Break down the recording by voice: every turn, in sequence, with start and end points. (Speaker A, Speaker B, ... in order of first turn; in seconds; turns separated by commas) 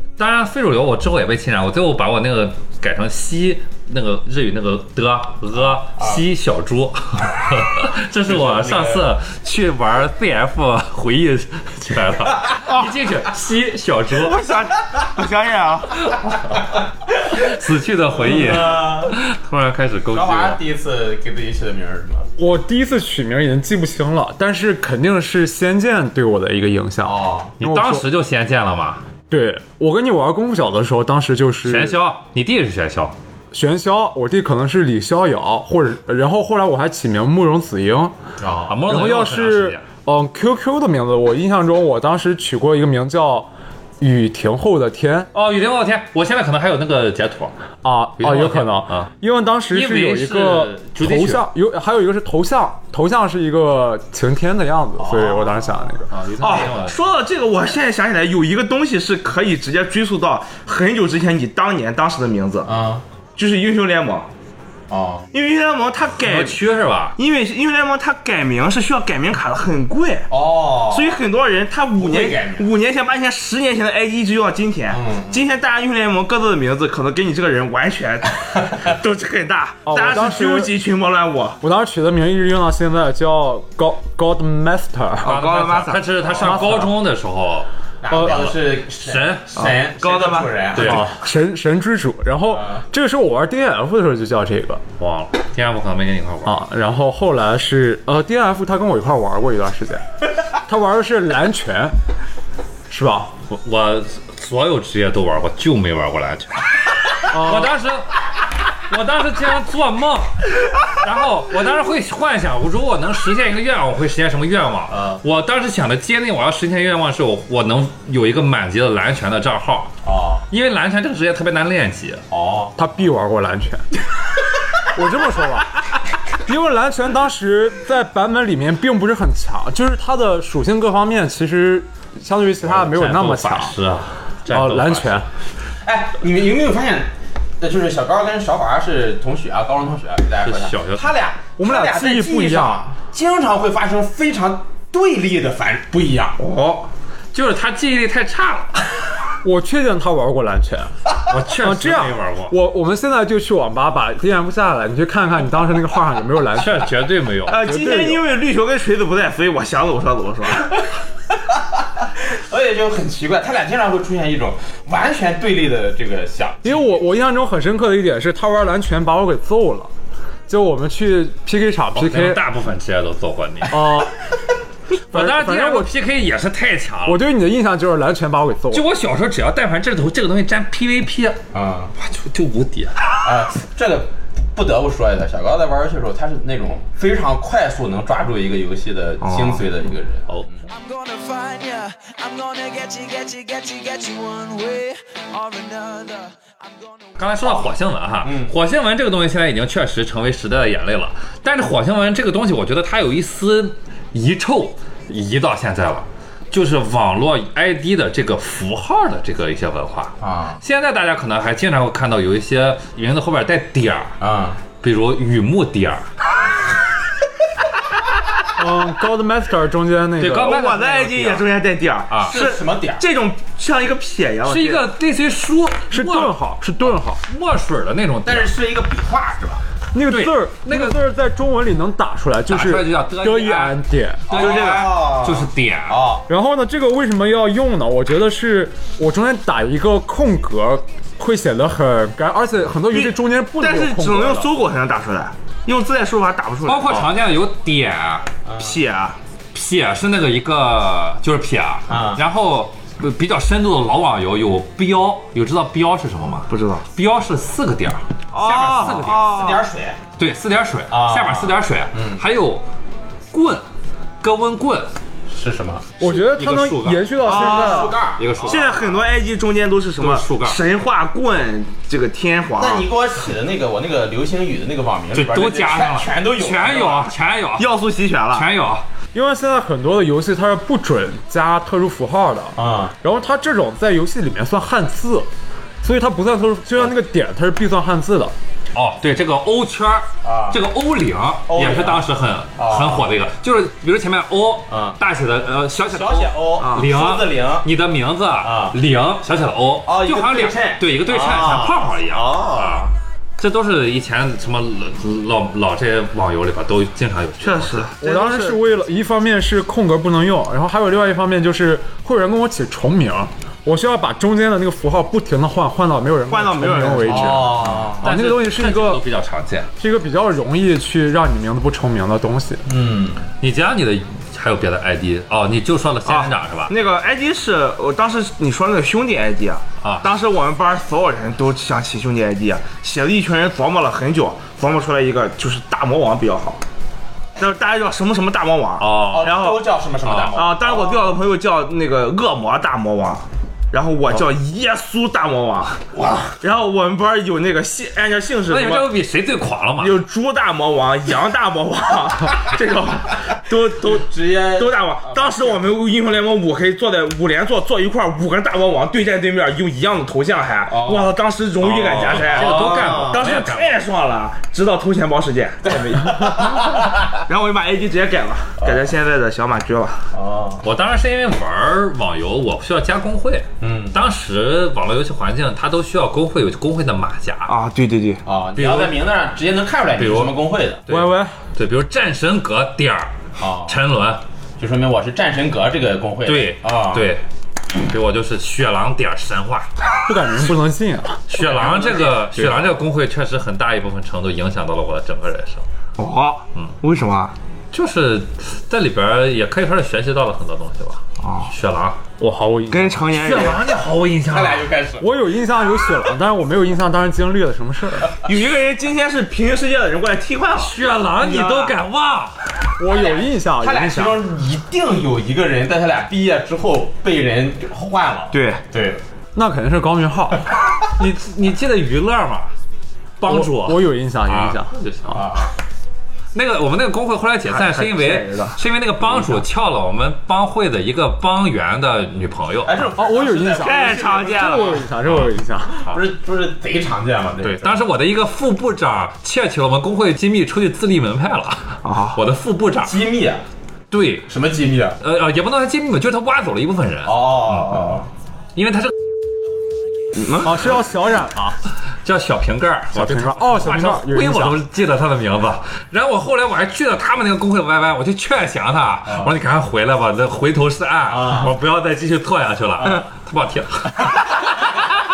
Speaker A: 0.2-14.4, Speaker B: 5.6-6.2, Speaker B: 8.3-9.1, Speaker C: 14.1-16.2, Speaker A: 17.3-20.6, Speaker B: 18.1-19.2, Speaker B: 20.1-22.3, Speaker D: 22.4-28.1, Speaker B: 27.0-27.5, Speaker A: 27.6-29.0, Speaker D: 29.3-32.0, Speaker A: 31.6-33.2, Speaker D: 33.5-38.1, Speaker B: 38.4-38.8, Speaker A: 38.7-39.8, Speaker D: 38.9-43.5, Speaker D: 44.0-45.3, Speaker A: 45.3-47.5, Speaker D: 47.8-56.1, Speaker A: 48.2-49.1, Speaker A: 49.7-51.5, Speaker B: 55.0-55.9, Speaker A: 56.1-57.0, Speaker C: 56.4-62.7, Speaker B: 62.7-63.0, Speaker C: 63.4-64.3, Speaker B: 64.9-65.3, Speaker C: 65.3-66.6, Speaker A: 66.2-67.2, Speaker C: 67.2-81.6, Speaker B: 70.3-71.2, Speaker B: 72.0-72.7, Speaker B: 74.9-75.4, Speaker D: 79.9-80.7, Speaker D: 81.6-85.4, Speaker C: 85.2-86.2, Speaker A: 85.2-89.6, Speaker B: 86.3-86.7, Speaker D: 86.4-86.9, Speaker B: 88.0-91.1, Speaker C: 89.6-90.6, Speaker A: 90.7-91.1, Speaker D: 90.8-94.8, Speaker B: 92.5-92.8, Speaker A: 95.0-96.6, Speaker D: 96.5-100.0, Speaker D: 100.7-102.0, Speaker D: 102.9-103.3, Speaker A: 103.5-108.2, Speaker D: 107.3-107.7, Speaker A: 108.9-119.9, Speaker B: 114.9-115.2, Speaker B: 120.0-120.4, Speaker A: 120.5-122.2, Speaker B: 122.3-122.8, Speaker D: 122.8-123.9, Speaker D: 124.9-125.7, Speaker D: 126.4-133.8, Speaker A: 132.7-135.3, Speaker D: 134.5-135.3, Speaker B: 135.8-146.4, Speaker A: 140.4-141.1, Speaker D: 141.6-142.8, Speaker C: 146.4-146.9, Speaker A: 147.3-148.8, Speaker D: 149.4-150.9, Speaker A: 151.3-152.5, Speaker D: 151.6-156.9, Speaker A: 156.6-157.6, Speaker C: 157.5-160.7, Speaker D: 157.5-158.2, Speaker B: 162.3-166.9, Speaker D: 166.6-169.9, Speaker D: 170.5-172.4, Speaker A: 171.9-173.9, Speaker D: 173.7-174.1, Speaker A: 175.1-177.2, Speaker D: 175.1-175.9, Speaker D: 177.1-178.8, Speaker A: 178.7-181.4, Speaker B: 181.5-181.9, Speaker A: 182.0-183.0, Speaker B: 183.2-190.6, Speaker C: 189.2-189.6, Speaker E: 190.7-197.3, Speaker A: 197.2-214.2, Speaker B: 197.4-198.6, Speaker B: 210.2-210.6, Speaker B: 214.2-214.6, Speaker A: 214.8-216.1, Speaker D: 218.6-220.7, Speaker A: 220.2-221.4, Speaker C: 220.4-224.9, Speaker B: 222.3-223.0, Speaker A: 224.4-228.5, Speaker D: 225.9-227.2, Speaker B: 228.2-229.6, Speaker D: 229.9-234.3, Speaker A: 230.1-231.0, Speaker A: 232.5-236.1, Speaker B: 234.3-236.2, Speaker C: 234.3-235.0, Speaker D: 236.3-244.5, Speaker C: 242.9-247.1, Speaker A: 246.7-248.3, Speaker B: 248.4-248.8, Speaker C: 248.6-249.2, Speaker A: 249.5-259.3, Speaker B: 251.9-252.2, Speaker C: 256.5-256.9, Speaker C: 258.3-259.6, Speaker B: 258.7-260.0, Speaker A: 260.2-262.6, Speaker B: 260.9-262.2, Speaker A: 263.3-263.6, Speaker A: 264.2-264.9, Speaker B: 265.3-265.9, Speaker A: 266.0-267.1, Speaker D: 266.0-267.9, Speaker B: 267.2-268.6, Speaker C: 267.3-267.9, Speaker A: 267.6-269.1, Speaker C: 268.4-272.9, Speaker A: 270.0-270.6, Speaker B: 272.6-277.1, Speaker A: 275.1-277.7, Speaker C: 277.6-278.5, Speaker A: 278.3-278.9, Speaker D: 279.1-285.3, Speaker B: 282.6-282.9, Speaker D: 285.8-288.4, Speaker A: 288.7-307.9, Speaker B: 290.2-290.6, Speaker B: 291.5-292.0, Speaker B: 292.6-293.1, Speaker B: 294.7-295.0, Speaker B: 295.8-297.7, Speaker C: 296.6-296.9, Speaker B: 298.4-298.8, Speaker B: 299.9-302.9, Speaker C: 307.4-308.6, Speaker D: 308.0-319.0, Speaker C: 316.3-317.7, Speaker B: 317.1-318.1, Speaker A: 317.8-319.7, Speaker D: 319.8-322.6, Speaker B: 322.7-323.3, Speaker A: 323.4-326.7, Speaker C: 326.1-336.6, Speaker A: 329.8-330.1, Speaker C: 337.4-339.7, Speaker A: 338.8-339.4, Speaker B: 339.1-341.1, Speaker A: 340.0-340.4, Speaker C: 340.3-345.8, Speaker B: 345.9-346.4, Speaker C: 346.4-348.9, Speaker A: 348.5-350.0, Speaker C: 349.8-370.1, Speaker B: 353.8-355.6, Speaker B: 360.7-361.1, Speaker A: 361.6-363.8, Speaker B: 362.1-363.2, Speaker B: 365.7-366.9, Speaker B: 370.1-370.6, Speaker A: 370.6-377.5, Speaker B: 373.6-374.0, Speaker C: 377.5-378.2, Speaker B: 378.2-380.8, Speaker A: 378.6-379.0, Speaker A: 380.0-383.1, Speaker D: 380.9-381.4, Speaker B: 383.4-383.8, Speaker A: 383.7-384.2, Speaker B: 384.6-387.1, Speaker A: 386.2-387.2, Speaker A: 387.8-389.7, Speaker D: 390.1-391.3, Speaker A: 391.3-395.6, Speaker B: 391.4-392.5, Speaker C: 396.0-397.4, Speaker A: 397.7-402.0, Speaker C: 401.2-401.5, Speaker D: 402.2-403.0, Speaker C: 402.7-403.7, Speaker A: 403.1-404.7, Speaker B: 404.3-405.1, Speaker D: 405.0-408.2, Speaker C: 408.2-410.8, Speaker A: 410.6-412.4, Speaker D: 412.8-414.2, Speaker B: 412.9-419.0, Speaker C: 418.3-418.6, Speaker D: 419.4-420.5, Speaker A: 420.9-422.5, Speaker A: 423.2-425.5, Speaker D: 423.2-424.7, Speaker B: 425.1-425.5, Speaker A: 426.3-432.9, Speaker C: 427.5-428.6, Speaker B: 432.6-434.8, Speaker D: 433.0-435.9, Speaker C: 433.5-434.9, Speaker B: 435.8-437.8, Speaker A: 437.4-443.0, Speaker C: 441.8-442.2, Speaker B: 442.8-443.4, Speaker A: 443.9-444.3, Speaker B: 444.3-445.0, Speaker A: 445.0-447.8, Speaker B: 447.1-448.1, Speaker A: 448.6-448.9, Speaker C: 450.2-450.6, Speaker D: 450.3-451.6, Speaker A: 452.0-464.2, Speaker D: 452.9-454.6, Speaker B: 461.1-461.5